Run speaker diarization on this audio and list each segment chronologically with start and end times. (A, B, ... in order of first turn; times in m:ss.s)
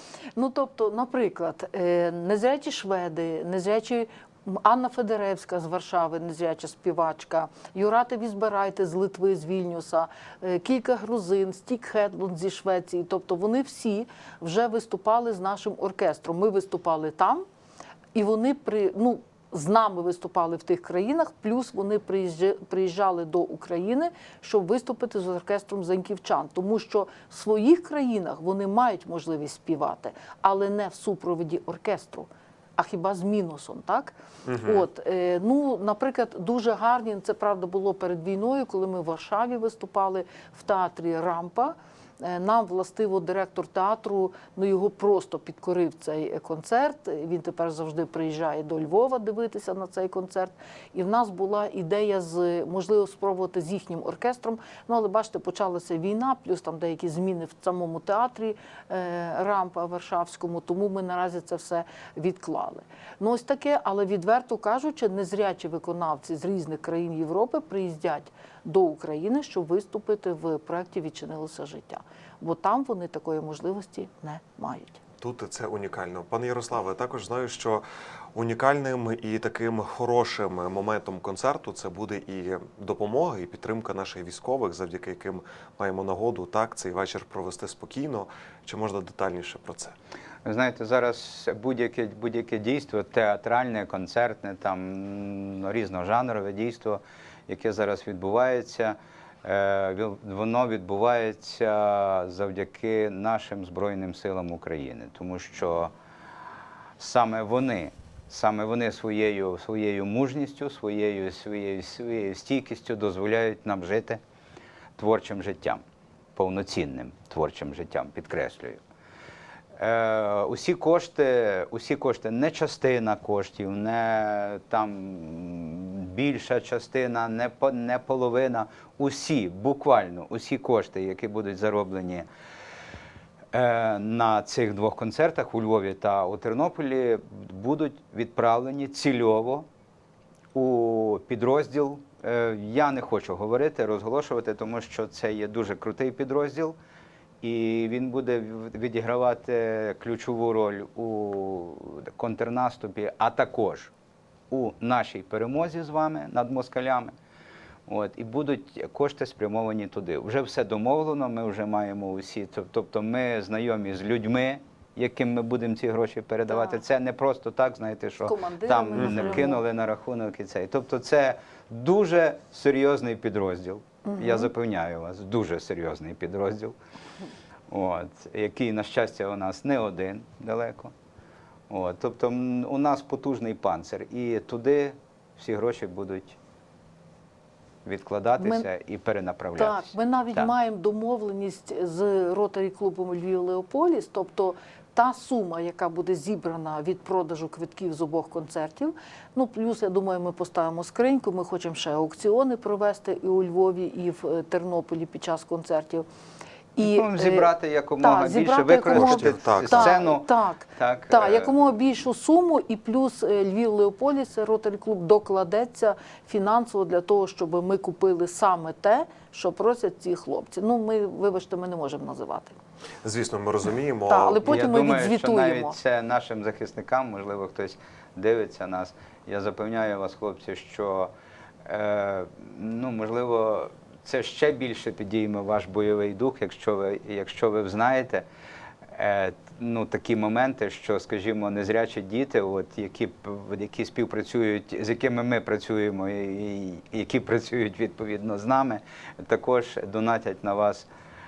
0:00.4-0:17.4 A
0:18.2-1:15.0 A
0:34.5-0:34.8 B
1:15.2-1:17.8 B
1:18.4-1:30.0 B
1:30.4-1:45.9 C
1:47.0-1:54.2 C
1:55.0-1:55.8 C
1:56.4-1:58.8 C
1:59.8-2:12.3 C
2:13.5-2:19.7 C
2:20.5-2:26.8 C
2:27.4-2:33.9 C
2:34.5-2:37.1 C
2:37.9-2:56.8 C
2:46.5-2:46.8 A
2:48.3-2:49.6 A
2:49.0-2:49.4 B
2:54.0-2:54.5 A
2:57.7-3:00.9 C
3:01.7-3:06.4 C
3:07.8-3:10.5 C
3:08.4-3:08.7 A
3:09.6-3:26.1 A
3:26.8-3:31.5 C
3:26.8-3:42.6 A
3:28.9-3:30.0 B
3:43.0-3:44.4 B
3:44.1-3:45.8 A
3:44.4-3:51.1 C
3:51.7-3:58.2 C
3:58.9-4:10.9 C